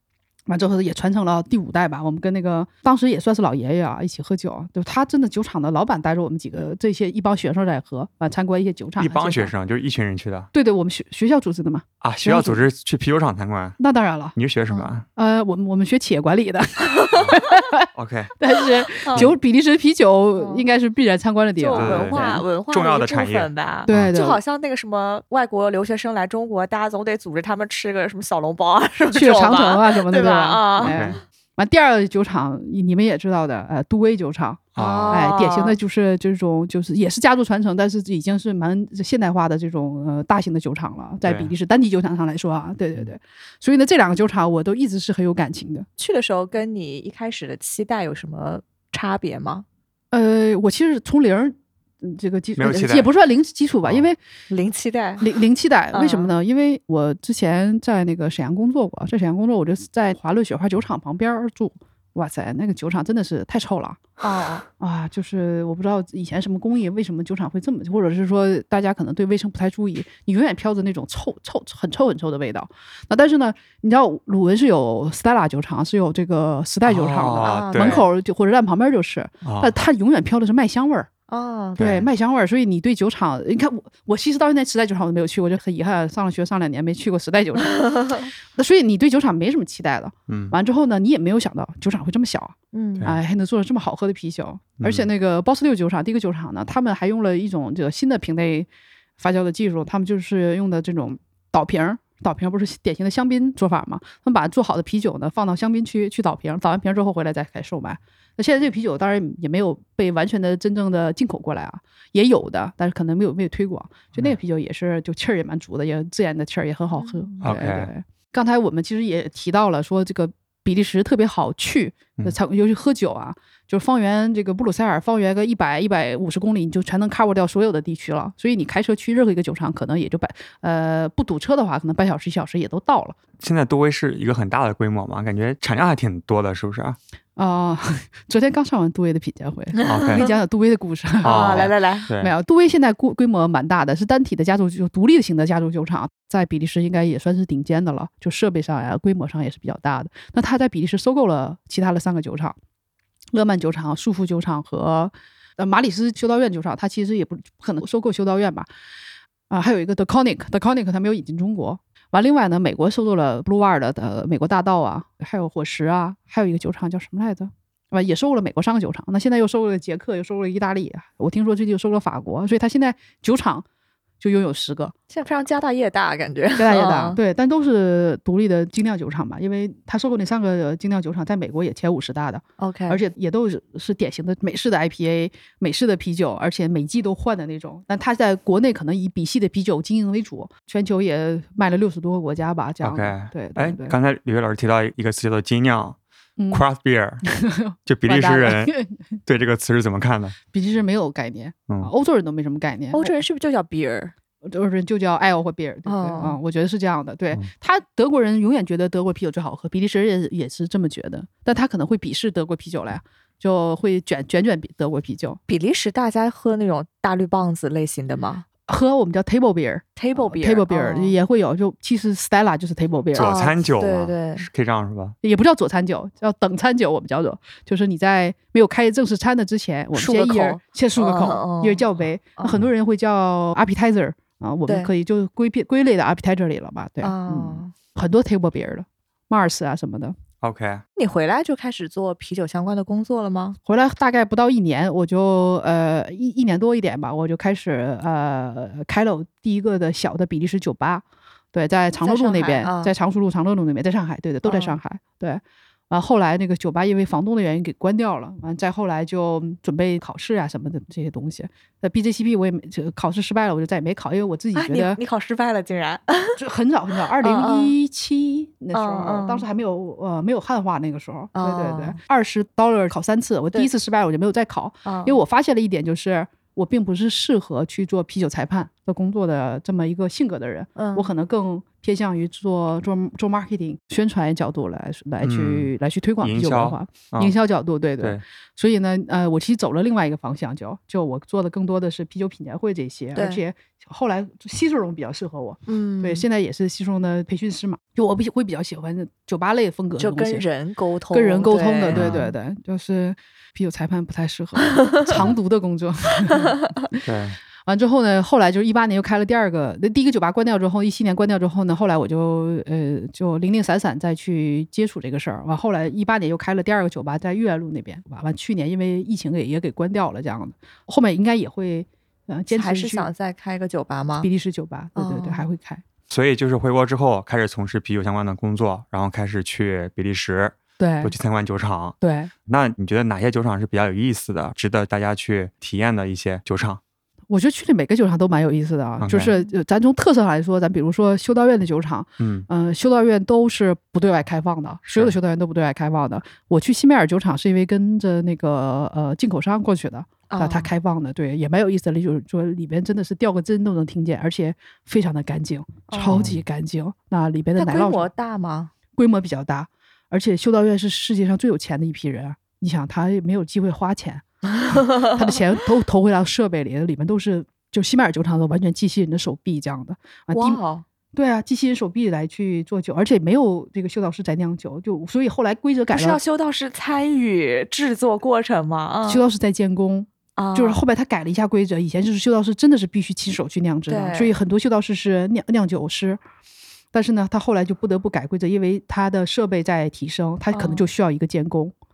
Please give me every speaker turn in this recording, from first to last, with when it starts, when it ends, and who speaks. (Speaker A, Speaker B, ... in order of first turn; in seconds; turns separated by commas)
Speaker A: 0.5-9.5, Speaker B: 9.0-10.5, Speaker A: 10.5-12.6, Speaker B: 12.0-13.8, Speaker A: 13.8-14.3, Speaker B: 14.3-15.1, Speaker A: 15.2-17.9, Speaker B: 17.1-17.4, Speaker B: 17.9-18.3, Speaker A: 18.4-22.4, Speaker C: 19.1-19.3, Speaker C: 20.4-20.6, Speaker C: 21.6-31.2, Speaker B: 21.8-24.1, Speaker A: 23.9-24.4, Speaker A: 29.1-45.9, Speaker B: 30.8-31.2, Speaker B: 34.7-35.3, Speaker C: 34.8-35.8, Speaker B: 41.2-41.5, Speaker C: 46.0-49.6, Speaker A: 50.1-54.2, Speaker B: 52.5-53.1, Speaker C: 54.5-55.2, Speaker A: 55.2-64.0, Speaker C: 55.9-56.3, Speaker C: 64.2-64.6, Speaker A: 64.8-81.1, Speaker B: 76.8-78.0, Speaker C: 77.4-78.0, Speaker B: 79.4-79.8, Speaker C: 81.3-81.9, Speaker B: 81.8-82.1, Speaker A: 81.8-133.2, Speaker C: 87.8-88.2, Speaker B: 90.3-90.5, Speaker C: 92.7-93.0, Speaker B: 94.8-95.1, Speaker C: 117.0-117.3, Speaker B: 117.4-117.9, Speaker B: 133.4-137.0, Speaker A: 137.3-152.6, Speaker C: 139.8-140.4, Speaker B: 139.8-140.3, Speaker C: 141.2-142.1, Speaker B: 141.2-142.3, Speaker A: 153.3-158.7, Speaker A: 159.5-173.6, Speaker A: 174.2-174.9, Speaker C: 175.1-177.2, Speaker A: 176.6-193.9, Speaker C: 182.6-183.0, Speaker B: 192.8-196.0, Speaker A: 196.4-196.6, Speaker B: 196.5-197.2, Speaker A: 197.2-198.9, Speaker B: 197.8-198.7, Speaker B: 199.2-200.3, Speaker A: 200.5-203.2, Speaker C: 202.9-204.1, Speaker A: 204.4-215.4, Speaker C: 205.8-206.4, Speaker C: 215.5-218.4, Speaker A: 218.7-223.3, Speaker C: 220.0-221.2, Speaker B: 223.1-225.2, Speaker C: 223.1-224.5, Speaker A: 225.2-240.1, Speaker C: 229.9-231.8, Speaker C: 237.0-237.7, Speaker B: 240.4-240.8, Speaker C: 240.9-243.6, Speaker A: 243.7-265.0, Speaker C: 252.0-252.9, Speaker C: 254.4-254.8, Speaker C: 264.5-266.4, Speaker A: 266.4-300.4, Speaker C: 267.2-267.7, Speaker C: 268.7-269.4, Speaker C: 271.3-272.0, Speaker C: 274.8-275.2, Speaker C: 280.8-281.1, Speaker B: 285.2-285.7, Speaker B: 286.2-287.3, Speaker C: 293.1-293.4, Speaker C: 295.7-296.2, Speaker C: 300.0-302.3, Speaker A: 301.1-307.0, Speaker B: 301.9-302.2, Speaker C: 304.7-305.0, Speaker B: 307.0-307.4, Speaker A: 307.6-323.1, Speaker C: 322.5-324.3, Speaker A: 324.2-325.8, Speaker C: 324.9-325.4, Speaker B: 326.1-336.8, Speaker A: 330.8-331.1, Speaker A: 332.0-332.3, Speaker A: 337.3-358.1, Speaker B: 339.0-339.3, Speaker B: 342.2-342.4, Speaker B: 344.9-345.1, Speaker C: 350.3-350.7, Speaker C: 355.9-356.3, Speaker B: 356.1-356.4, Speaker C: 357.6-358.7, Speaker A: 358.9-370.6, Speaker C: 364.5-365.2, Speaker C: 370.3-370.8, Speaker A: 371.1-376.2, Speaker C: 375.9-379.2, Speaker A: 379.1-386.2, Speaker C: 380.4-380.8, Speaker C: 383.9-384.3, Speaker A: 386.9-391.7, Speaker C: 390.5-390.8